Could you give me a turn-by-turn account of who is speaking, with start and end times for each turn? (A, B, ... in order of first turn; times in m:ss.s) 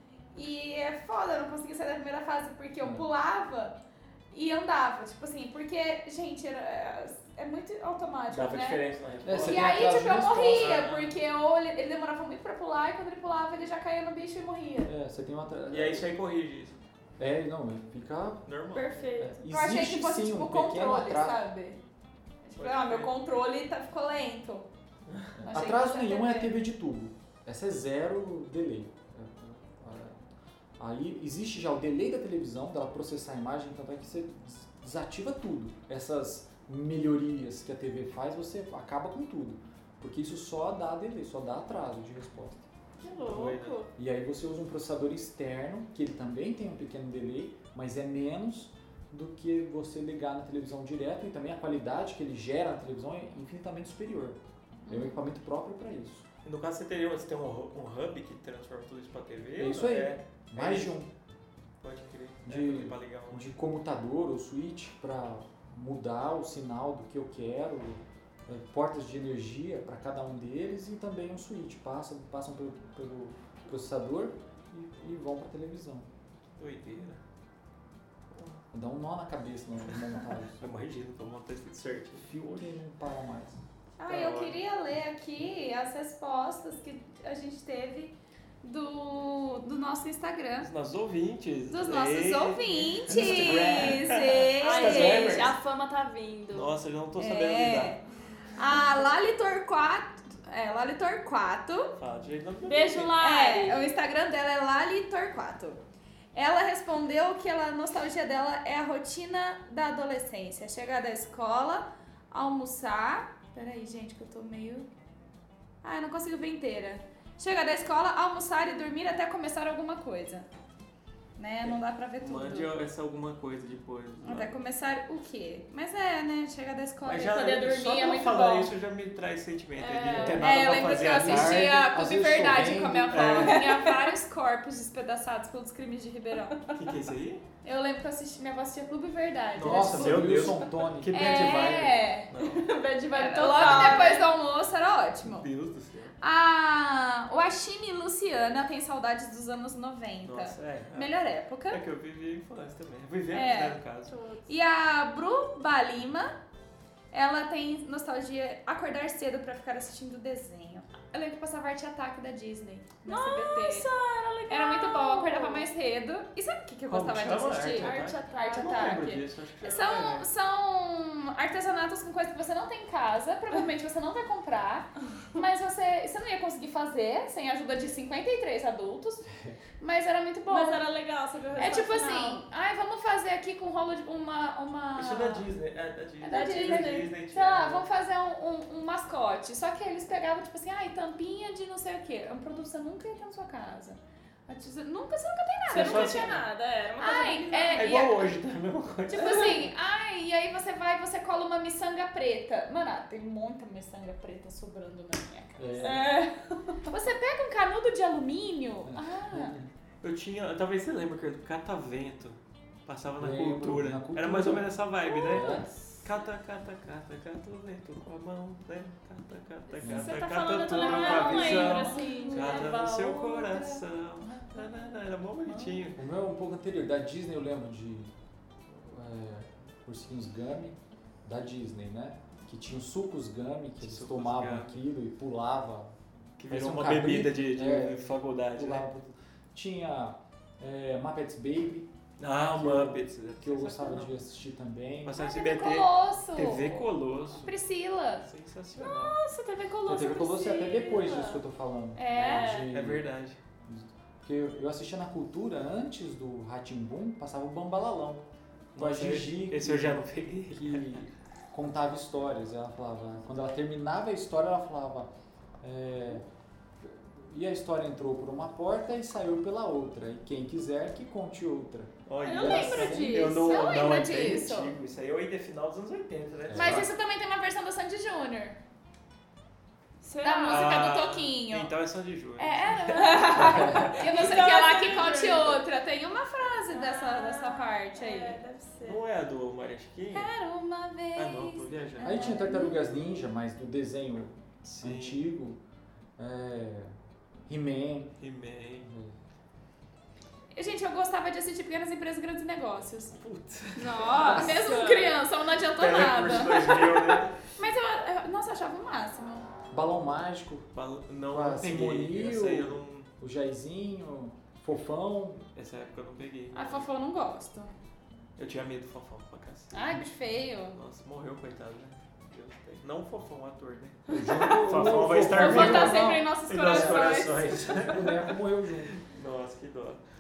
0:00.3-0:03.8 A
0:04.3-0:08.8 A
0:08.3-0:09.8 B
0:09.2-0:10.8 C
0:09.4-0:14.9 A
0:10.4-0:11.2 B
0:14.8-0:16.1 C
0:15.7-0:16.8 B
0:17.2-0:18.5 C
0:18.4-0:19.0 B
0:18.7-0:19.4 D
0:19.2-0:21.5 C
0:19.4-0:21.8 A
0:22.4-0:24.7 A
0:22.6-0:23.1 B
0:25.1-0:25.3 B
0:25.4-0:30.2 C
0:25.5-0:26.6 A
0:30.8-0:42.7 C
0:43.0-0:43.9 D
0:43.1-0:43.8 B
0:44.0-0:56.3 C
0:54.9-0:55.2 A
0:56.4-1:01.0 B
0:59.6-1:01.1 C
1:01.8-1:03.5 B
1:02.4-1:16.1 C
1:16.6-1:17.2 B
1:18.3-1:18.6 B
1:18.7-1:20.7 C
1:20.6-1:22.7 B
1:22.2-1:23.6 C
1:24.0-1:30.7 A
1:24.0-1:24.6 B
1:30.6-1:35.6 B
1:31.7-1:35.5 A
1:34.6-1:36.8 D
1:36.5-1:38.0 B
1:37.2-1:38.0 A
1:38.6-1:42.0 A
1:42.0-1:43.2 B
1:42.6-1:43.8 D
1:43.2-1:45.8 A
1:46.3-1:54.9 A
1:55.8-2:00.5 A
2:01.4-2:02.7 A
2:01.6-2:04.6 B
2:04.2-2:08.7 A
2:07.0-2:11.8 B
2:09.8-2:10.4 D
2:10.2-2:16.6 A
2:11.0-2:13.6 C
2:13.1-2:13.9 B
2:13.5-2:13.9 D
2:16.7-2:17.4 B
2:17.6-2:20.4 A
2:19.6-2:22.8 B
2:19.6-2:21.2 C
2:21.1-2:22.3 A
2:22.4-2:24.3 D
2:23.1-2:25.5 A
2:23.5-2:24.2 B
2:25.2-2:26.1 B
2:26.2-2:31.8 A
2:30.2-2:31.2 B
2:31.7-2:34.1 B
2:33.3-2:33.8 A
2:34.1-2:34.5 D
2:34.5-2:36.4 A
2:37.1-2:43.9 A
2:43.1-2:45.6 D
2:44.5-2:59.3 A
2:46.9-2:50.3 B
2:47.8-2:48.9 D
2:59.8-3:00.8 A
3:00.5-3:02.4 D
3:01.6-3:05.5 A
3:05.0-3:07.8 B
3:06.2-3:16.4 A
3:06.3-3:07.1 D
3:15.7-3:16.5 B
3:15.7-3:18.0 D
3:17.0-3:18.3 A
3:17.7-3:19.7 B
3:19.1-3:26.1 A
3:25.6-3:26.1 C
3:25.8-3:26.8 D
3:26.9-3:29.6 A
3:28.9-3:29.7 C
3:30.0-3:46.0 B
3:33.2-3:35.7 C
3:39.8-3:40.2 C
3:39.8-3:42.8 D
3:40.6-3:44.7 A
3:45.5-3:45.9 A
3:46.0-3:48.1 C
3:48.7-3:55.9 C
3:53.8-3:54.8 B
3:56.4-3:58.8 B
3:56.5-4:01.9 C
4:02.2-4:04.1 B
4:02.5-4:05.3 C
4:05.0-4:07.6 B
4:05.2-4:08.2 A
4:08.2-4:09.2 B
4:08.8-4:11.4 D
4:09.9-4:13.1 C
4:12.0-4:12.6 A
4:12.1-4:12.7 D
4:12.6-4:13.4 B
4:13.7-4:26.2 C
4:18.8-4:21.0 B
4:26.8-4:33.4 C
4:32.1-4:36.9 B
4:32.2-4:33.6 D
4:33.3-4:34.8 A
4:36.5-4:36.9 C
4:36.5-4:38.6 A
4:40.0-4:40.9 D
4:40.2-4:41.7 A
4:40.5-4:44.2 B
4:42.4-4:48.4 A
4:43.0-4:45.6 D
4:43.4-4:43.9 C
4:46.7-4:49.0 D
4:48.8-4:50.3 B
4:50.1-4:53.0 A
4:51.2-4:52.4 B
4:52.0-4:55.6 C
4:54.6-4:55.2 B
4:56.2-4:57.0 C
4:57.5-4:58.2 C
4:58.2-4:58.9 B
4:58.8-4:59.1 C
5:00.5-5:03.2 A
5:03.2-5:04.5 B
5:03.8-5:05.2 D
5:04.2-5:09.5 A
5:05.6-5:07.4 B
5:09.7-5:10.7 C
5:10.7-5:13.1 B
5:11.3-5:15.5 C
5:15.6-5:16.8 B
5:16.5-5:17.7 A
5:18.4-5:19.7 B
5:19.7-5:20.8 A
5:20.7-5:30.0 B
5:24.1-5:28.9 C
5:25.3-5:27.7 A